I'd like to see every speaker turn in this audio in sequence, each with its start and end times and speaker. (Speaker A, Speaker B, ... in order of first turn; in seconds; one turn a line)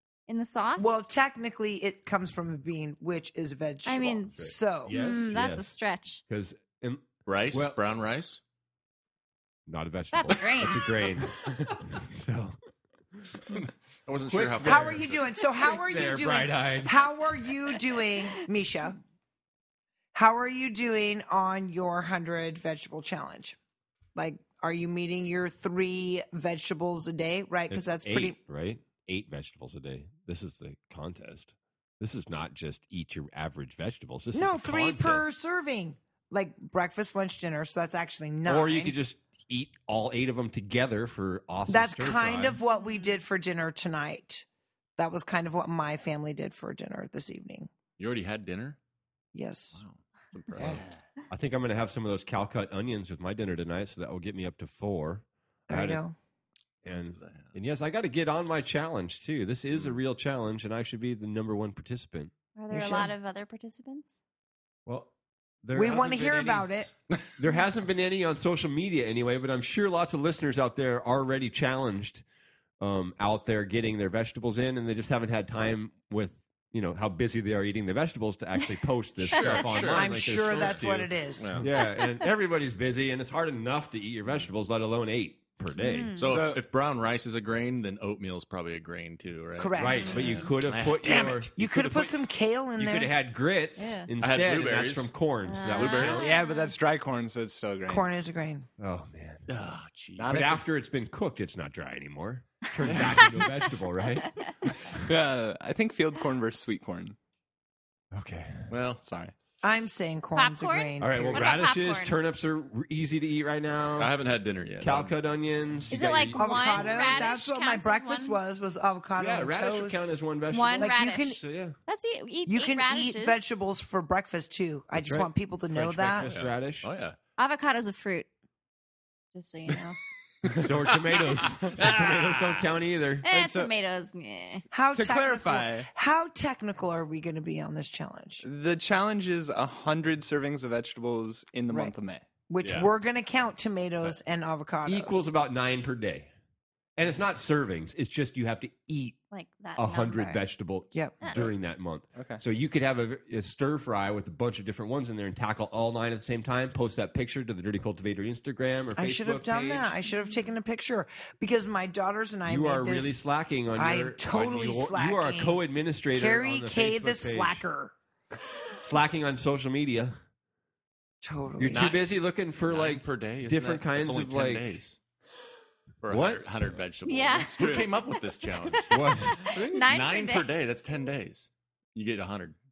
Speaker A: 0.3-0.9
Speaker B: 0.8-5.0
Speaker A: 3.8-6.2
Speaker C: 4.3-5.6
Speaker C: 6.3-7.8
Speaker D: 7.2-8.4
Speaker C: 9.7-12.5
Speaker A: 10.1-11.0
Speaker D: 14.0-15.2
Speaker C: 14.3-15.1
Speaker B: 14.6-18.9
Speaker C: 15.6-17.0
Speaker B: 20.1-23.6
Speaker B: 24.1-28.4
Speaker C: 27.7-35.2
Speaker B: 34.3-38.9
Speaker C: 38.4-42.6
Speaker B: 41.7-44.5
Speaker A: 42.7-43.1
Speaker B: 45.0-47.7
Speaker D: 48.0-48.8
Speaker B: 49.3-49.8
Speaker D: 49.7-50.9
Speaker C: 50.6-56.0
Speaker B: 55.7-56.1
Speaker C: 56.8-62.3
Speaker D: 56.9-57.5
Speaker A: 62.6-64.2
Speaker B: 62.7-63.1
Speaker C: 64.8-65.1
Speaker C: 65.6-72.2
Speaker B: 65.7-66.9
Speaker C: 72.8-86.4
Speaker D: 79.2-81.7
Speaker B: 79.9-81.6
Speaker A: 85.8-86.3
Speaker D: 86.1-91.5
Speaker E: 86.2-86.6
Speaker B: 89.6-90.5
Speaker C: 89.8-92.2
Speaker B: 91.0-93.1
Speaker C: 92.8-96.3
Speaker A: 93.8-94.1
Speaker D: 94.2-95.1
Speaker A: 95.4-96.7
Speaker D: 95.7-96.3
Speaker E: 96.1-98.1
Speaker B: 97.9-98.7
Speaker C: 98.8-99.4
Speaker D: 99.5-100.5
Speaker E: 100.2-100.6
Speaker C: 100.3-105.0
Speaker E: 104.9-107.2
Speaker C: 108.1-108.7
Speaker D: 108.7-109.0
Speaker E: 109.0-109.3
Speaker B: 109.6-111.5
Speaker A: 110.3-112.2
Speaker C: 111.0-114.1
Speaker D: 114.0-115.1
Speaker C: 114.8-117.2
Speaker A: 115.9-118.4
Speaker B: 116.3-120.1
Speaker C: 119.2-121.8
Speaker A: 120.5-123.4
Speaker B: 120.8-121.4
Speaker B: 122.5-126.3
Speaker C: 124.9-126.9
Speaker D: 126.2-127.2
Speaker A: 127.4-128.3
Speaker A: 129.3-130.0
Speaker D: 130.5-132.7
Speaker C: 130.6-133.2
Speaker A: 133.2-134.6
Speaker E: 133.2-133.7
Speaker B: 134.7-138.4
Speaker E: 134.9-135.9
Speaker E: 138.4-142.2
Speaker B: 142.5-145.2
Speaker D: 142.6-142.9
Speaker C: 144.8-146.3
Speaker C: 147.0-149.2
Speaker A: 149.3-150.4
Speaker C: 149.8-159.9
Speaker E: 152.2-152.4
Speaker B: 158.9-163.2
Speaker C: 162.4-167.6
Speaker B: 163.7-165.6
Speaker B: 166.1-167.9
Speaker C: 168.8-170.2
Speaker B: 171.2-171.9
Speaker C: 171.6-174.7
Speaker D: 171.7-172.0
Speaker D: 172.7-175.0
Speaker D: 176.0-179.0
Speaker C: 176.1-176.4
Speaker A: 177.0-177.8
Speaker E: 177.5-177.8
Speaker C: 178.9-179.4
Speaker A: 179.4-180.5
Speaker E: 179.5-179.8
Speaker D: 179.8-182.5